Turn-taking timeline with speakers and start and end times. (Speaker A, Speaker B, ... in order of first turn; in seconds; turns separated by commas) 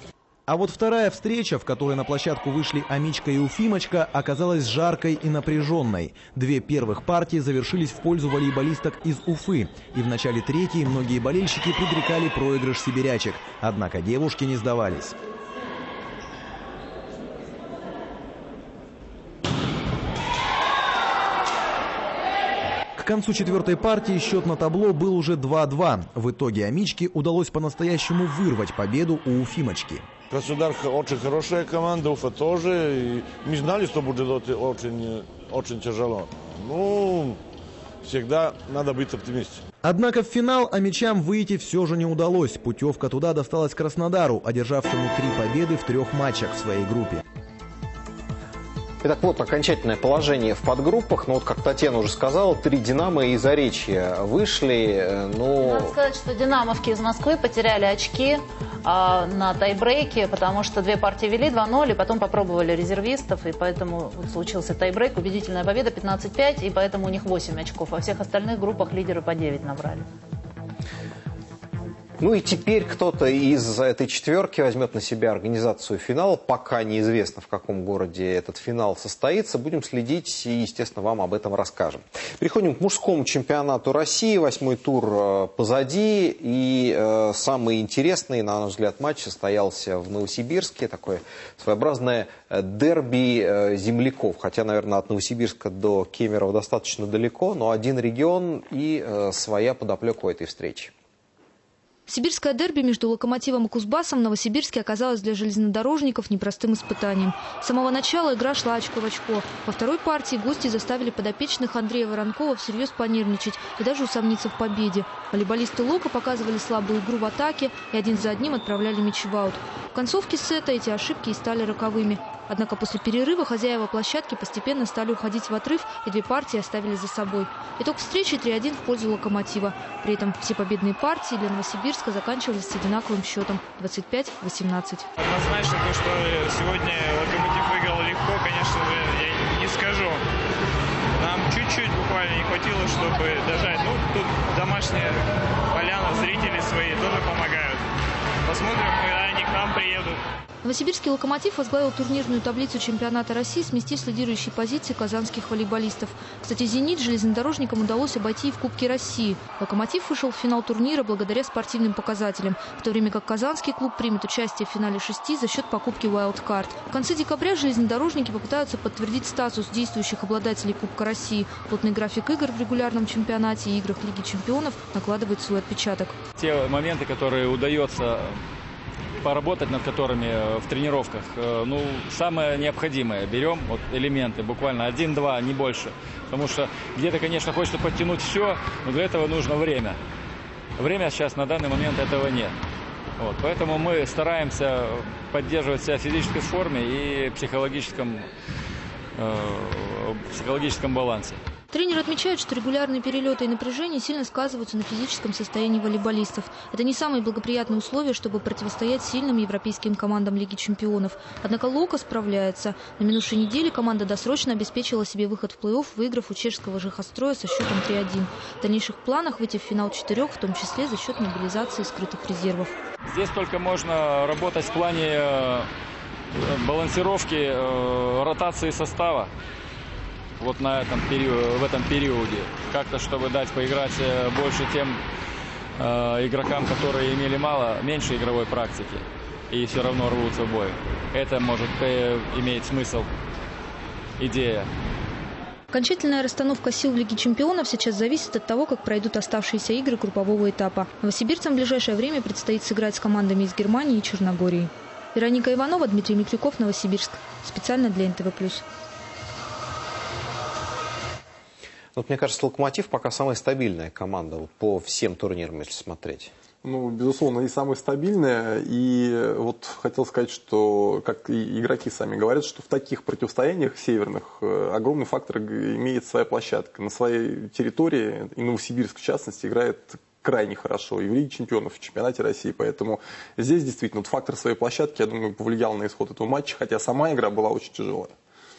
Speaker A: 0.5-15.2, Speaker A: 23.0-30.1, Speaker B: 30.3-37.4, Speaker B: 38.0-39.6, Speaker A: 39.8-47.2, Speaker C: 49.0-55.9, Speaker D: 55.6-70.1, Speaker C: 72.2-100.9, Speaker E: 102.1-135.1, Speaker F: 135.2-140.2, Speaker F: 141.2-147.8, Speaker F: 148.5-150.2, Speaker E: 150.7-176.2, Speaker G: 176.4-178.4, Speaker G: 179.2-190.0, Speaker G: 190.8-192.6, Speaker G: 193.2-198.3, Speaker G: 199.2-201.4, Speaker E: 201.7-222.7, Speaker G: 223.1-225.7, Speaker G: 226.3-229.3, Speaker G: 230.4-235.0, Speaker G: 235.8-243.1, Speaker G: 244.2-244.7, Speaker E: 245.7-258.6, Speaker C: 262.0-266.3, Speaker H: 266.6-288.1